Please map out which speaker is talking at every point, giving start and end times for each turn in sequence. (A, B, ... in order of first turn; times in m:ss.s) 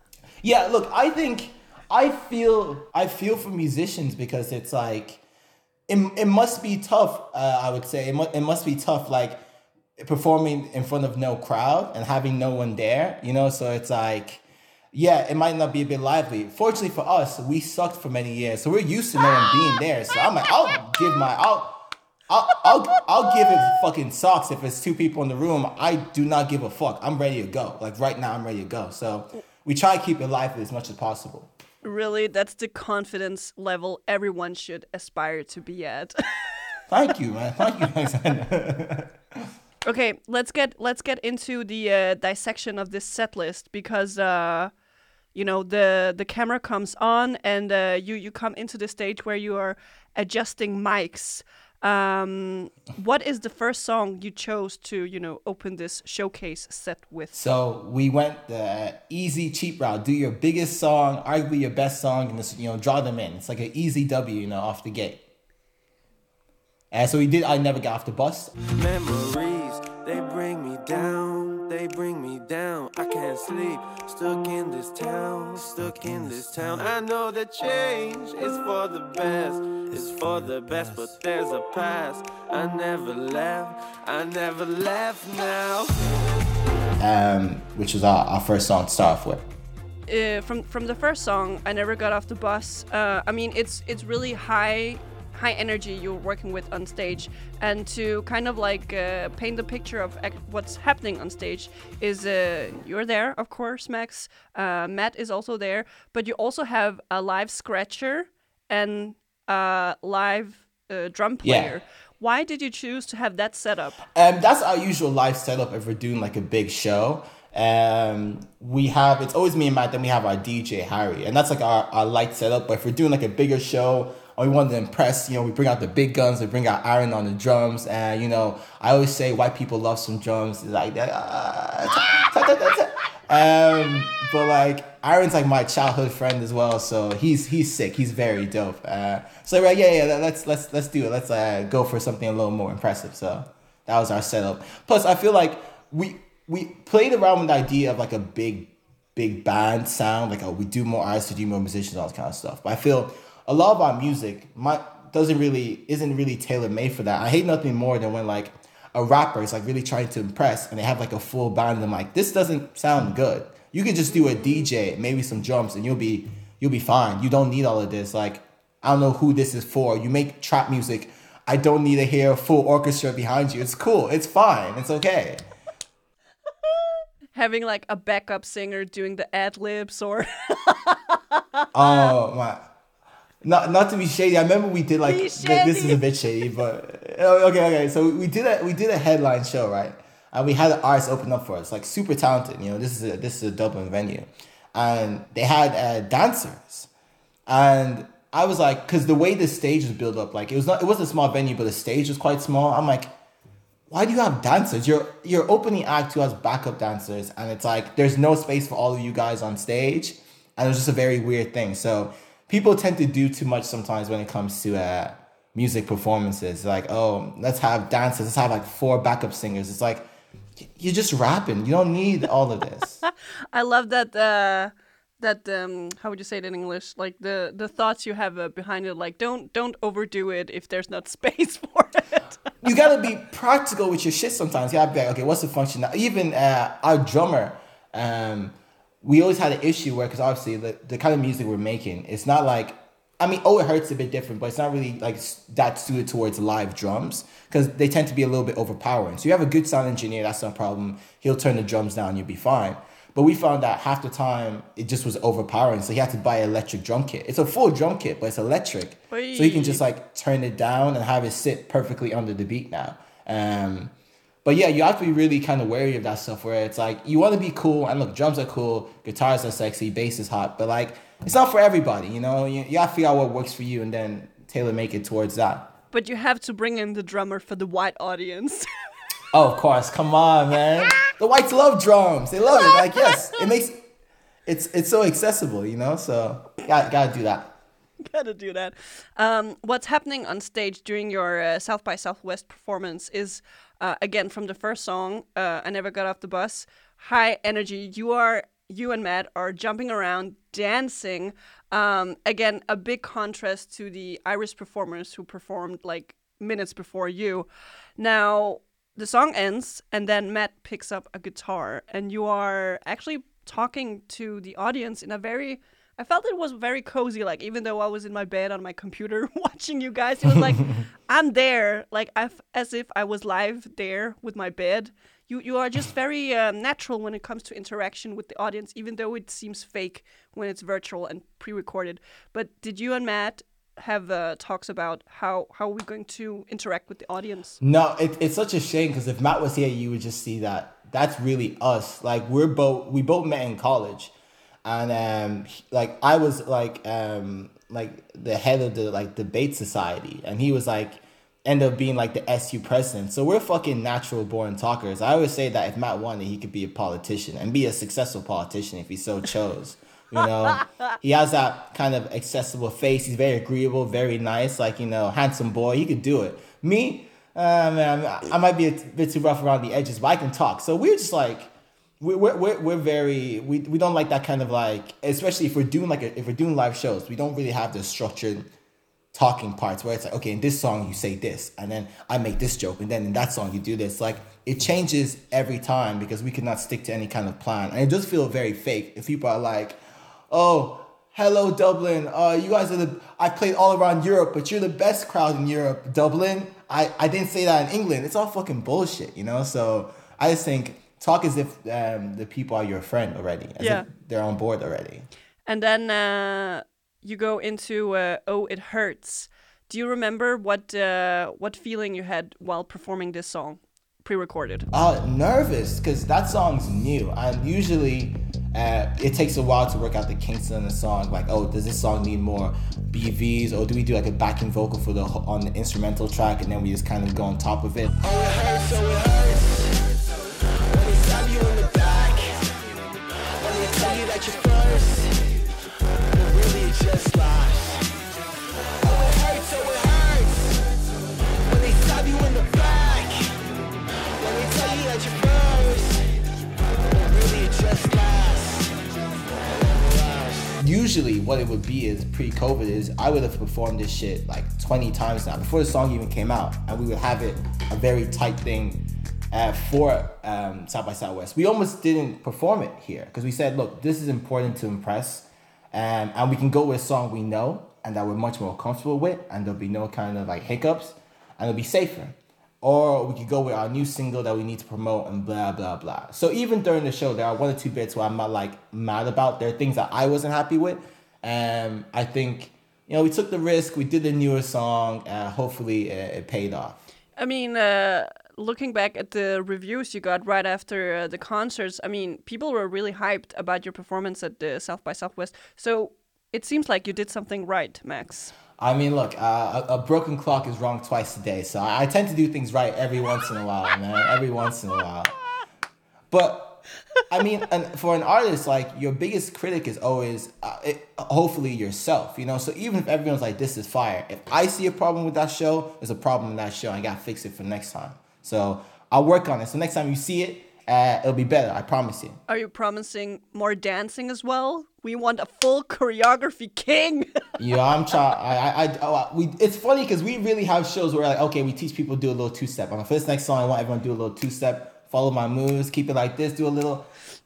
0:00.4-0:05.2 A
0:05.9-0:09.4 A
0:10.0-0:31.5 A
0:31.8-0:36.8 B
0:36.9-0:39.4 A
0:39.9-0:44.7 B
0:45.3-0:57.4 B
0:57.3-1:05.2 A
1:06.9-1:08.5 A
1:08.7-1:26.0 C
1:27.0-1:29.4 A
1:30.1-1:54.0 B
1:51.4-1:51.7 A
1:54.2-2:55.4 A
2:57.4-3:02.1 B
3:01.7-3:02.6 A
3:03.4-3:16.9 A
3:05.0-3:06.0 B
3:17.5-3:23.1 A
3:23.9-3:40.1 A
3:40.6-3:43.0 A
3:43.5-3:52.4 B
3:52.6-4:23.9 A
4:19.1-4:19.8 B
4:24.4-4:35.7 A
4:35.9-4:38.7 B
4:39.3-4:43.8 A
4:44.5-4:47.6 A
4:48.0-5:07.5 B
5:08.0-5:37.6 B
5:37.6-5:44.1 A
5:44.6-6:18.5 A
6:19.1-6:29.8 A
6:30.3-6:45.1 A
6:43.6-6:43.9 B
6:45.5-6:54.7 B
6:54.7-7:09.7 A
7:10.7-7:12.3 A
7:13.4-7:15.1 A
7:16.1-7:17.8 A
7:18.8-7:20.5 A
7:21.4-7:23.1 A
7:24.2-7:26.0 A
7:26.9-7:28.6 A
7:30.4-8:06.8 A
8:07.2-8:18.3 B
8:18.6-8:25.1 A
8:26.1-8:42.2 A
8:42.3-8:47.3 B
8:47.4-8:56.9 A